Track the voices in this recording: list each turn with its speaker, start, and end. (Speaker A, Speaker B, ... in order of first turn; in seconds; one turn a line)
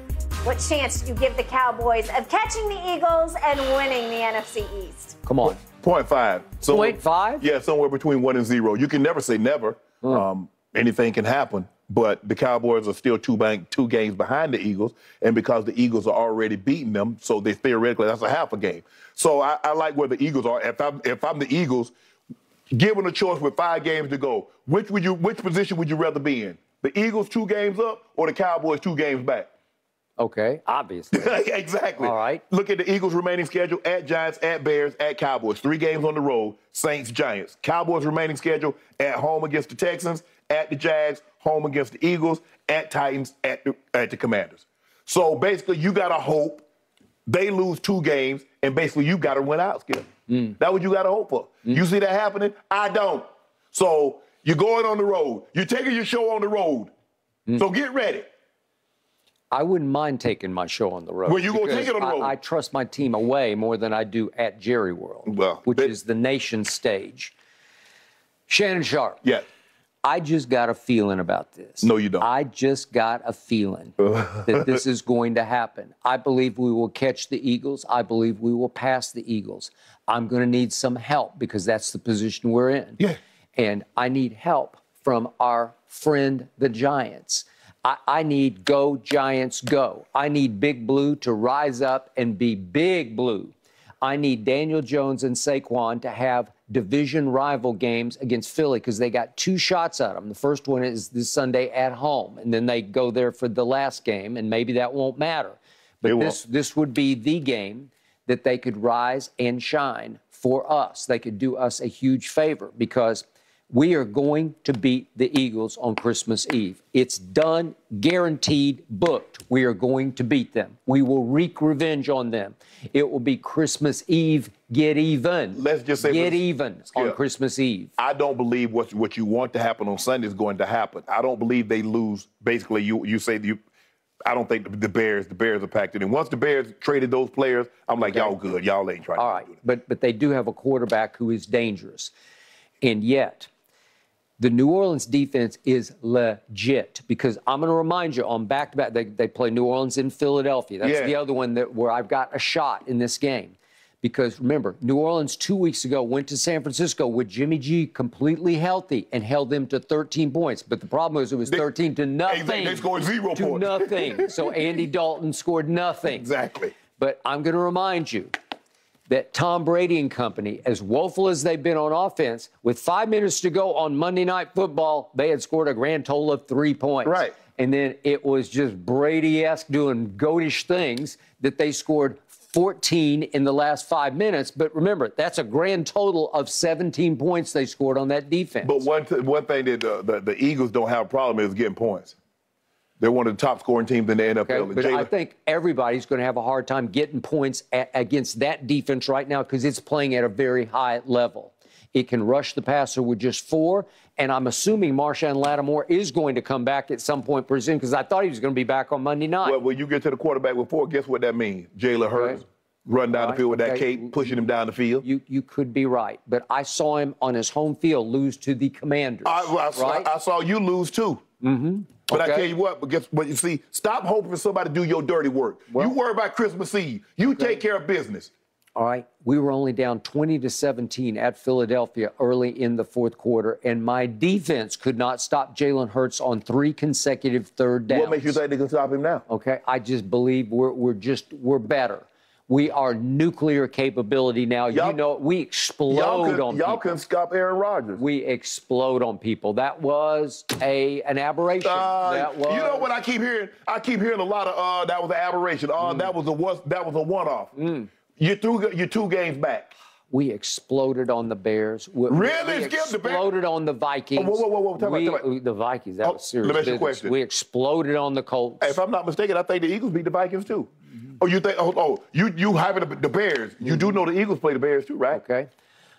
Speaker A: 0.4-5.2
Speaker B: 5.2-5.6
Speaker C: 5.4-21.9
Speaker B: 6.7-7.5
Speaker C: 22.7-29.5
Speaker B: 30.2-31.3
Speaker C: 31.1-46.6
Speaker B: 32.0-32.4
Speaker C: 47.3-56.9
Speaker B: 50.3-50.6
Speaker C: 57.6-58.3
Speaker B: 59.5-67.3
Speaker C: 61.2-62.3
Speaker C: 65.3-66.0
Speaker B: 68.5-69.2
Speaker B: 70.0-83.0
Speaker C: 71.8-72.3
Speaker C: 74.0-74.8
Speaker B: 83.6-127.9
Speaker C: 106.0-106.4
Speaker C: 125.5-127.2
Speaker C: 128.0-133.6
Speaker C: 134.3-139.6
Speaker B: 138.0-138.4
Speaker B: 139.2-142.1
Speaker B: 142.8-143.5
Speaker B: 144.4-166.3
Speaker C: 150.8-151.2
Speaker C: 162.3-164.5
Speaker C: 166.1-166.8
Speaker B: 167.0-168.3
Speaker B: 169.1-188.8
Speaker C: 177.1-177.4
Speaker C: 188.6-192.2
Speaker C: 193.0-195.1
Speaker B: 194.4-209.6
Speaker C: 209.4-215.1
Speaker B: 212.1-212.4
Speaker B: 213.1-214.4
Speaker B: 215.0-220.1
Speaker C: 219.2-221.2
Speaker B: 221.4-222.5
Speaker C: 222.1-228.3
Speaker B: 227.2-227.6
Speaker B: 228.8-238.4
Speaker C: 237.9-239.2
Speaker B: 239.3-247.0
Speaker C: 244.7-245.0
Speaker C: 245.9-248.0
Speaker B: 248.0-252.9
Speaker C: 251.6-257.5
Speaker B: 255.8-256.1
Speaker B: 257.6-257.9
Speaker C: 258.2-259.7
Speaker B: 260.1-268.8
Speaker C: 262.1-263.3
Speaker C: 264.2-265.3
Speaker C: 266.0-267.1
Speaker C: 268.6-275.2
Speaker B: 273.6-273.9
Speaker B: 275.1-275.5